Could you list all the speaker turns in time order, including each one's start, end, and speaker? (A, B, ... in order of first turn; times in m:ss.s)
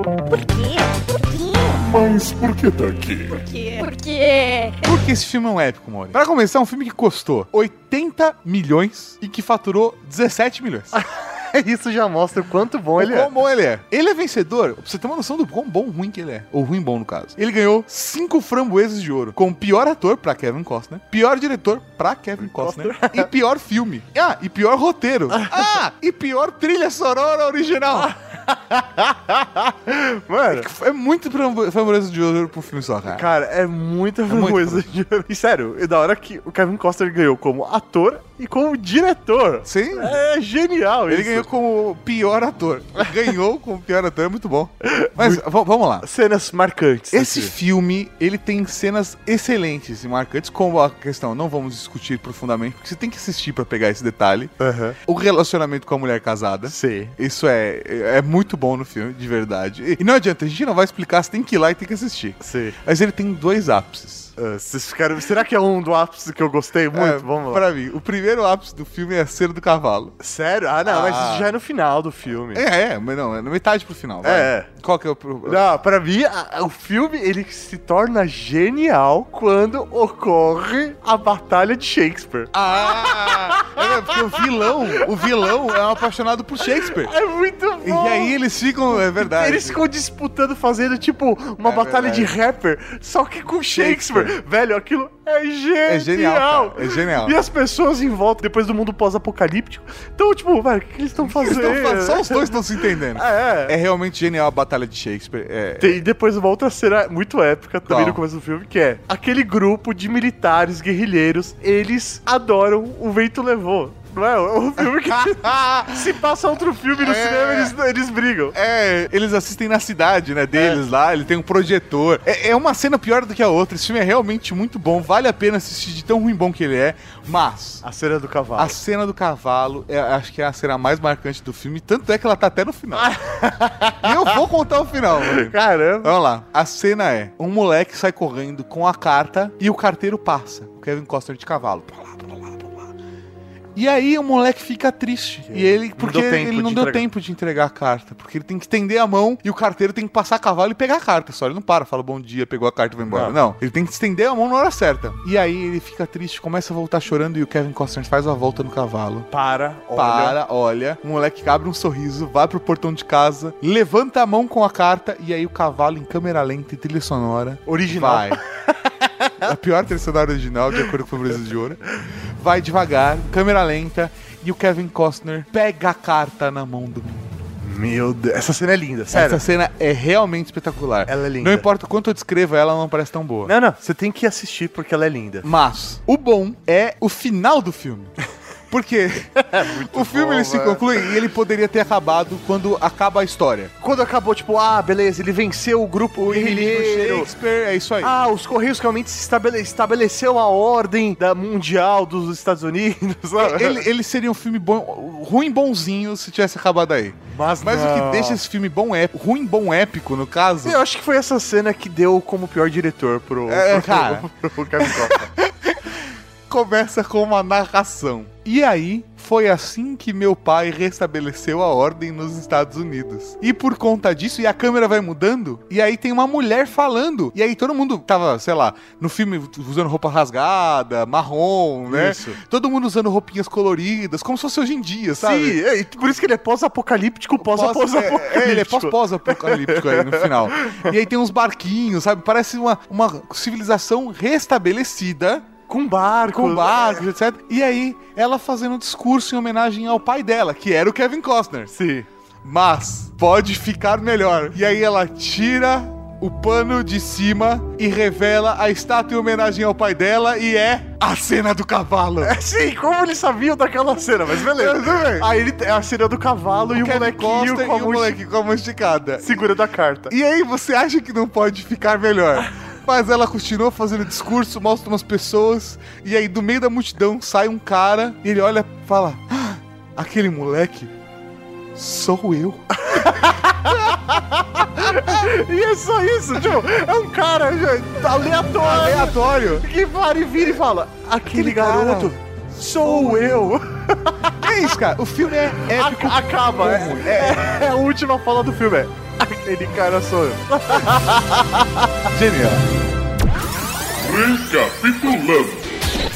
0:00.2-0:01.9 A
0:01.8-0:03.4 B
0:03.3-0:04.9 A
0:04.8-0:11.0 C
0:10.9-0:13.3 D
0:13.0-0:28.1 C
0:22.4-0:23.3 D
0:27.9-0:30.7 D
0:30.5-0:33.2 C
0:33.1-0:41.5 D
0:34.3-0:34.8 C
0:39.6-0:40.2 C
0:41.1-0:46.0 C
0:44.8-0:45.4 D
0:46.0-0:47.5 D
0:47.1-1:04.3 C
0:54.6-0:55.0 D
0:56.7-0:57.1 D
1:02.4-1:02.8 D
1:04.4-1:07.6 D
1:06.9-1:10.1 C
1:10.2-1:12.6 D
1:10.8-1:11.5 C
1:12.5-1:15.6 C
1:14.2-1:14.7 D
1:15.4-1:25.5 D
1:22.5-1:27.1 C
1:26.8-1:28.3 D
1:27.8-1:29.8 C
1:28.9-1:42.6 D
1:31.6-1:32.3 C
1:33.7-1:34.3 C
1:35.8-1:37.4 C
1:41.2-1:46.0 C
1:43.1-1:43.7 D
1:45.8-1:58.6 D
1:47.8-1:48.2 C
1:54.8-1:56.1 C
1:57.0-1:57.8 C
1:58.5-2:07.8 C
2:07.8-2:08.8 D
2:08.6-2:13.1 C
2:12.9-2:14.4 D
2:14.0-2:22.9 C
2:15.1-2:16.1 D
2:23.7-2:39.3 C
2:25.5-2:27.0 D
2:33.1-2:33.4 D
2:39.3-2:40.4 D
2:39.9-2:48.4 C
2:47.6-2:49.5 D
2:49.4-2:57.3 C
2:57.6-2:59.4 D
2:59.1-3:03.5 C
3:01.0-3:01.7 D
3:03.4-3:05.4 D
3:05.4-3:08.1 C
3:08.7-3:13.7 C
3:09.4-3:11.1 D
3:13.8-3:17.3 D
3:16.2-3:18.1 C
3:18.0-3:23.8 D
3:23.4-3:30.8 C
3:27.3-3:28.4 D
3:30.6-3:35.3 D
3:33.5-3:34.3 C
3:34.8-3:55.6 C
3:51.9-3:52.4 D
3:55.2-4:00.9 D
3:57.4-4:05.5 C
4:05.7-4:07.1 D
4:06.2-4:11.7 C
4:11.7-4:12.1 D
4:12.4-4:22.4 C
4:22.2-4:28.2 D
4:24.4-4:25.3 C
4:26.7-4:29.4 C
4:29.2-4:30.1 D
4:30.1-4:40.9 C
4:41.7-4:44.0 C
4:42.8-4:54.7 D
4:44.8-4:45.2 C
4:48.4-4:49.6 C
4:51.2-4:52.2 C
4:54.4-4:57.6 C
4:55.6-5:01.9 D
5:02.1-5:02.6 C
5:04.0-5:05.9 B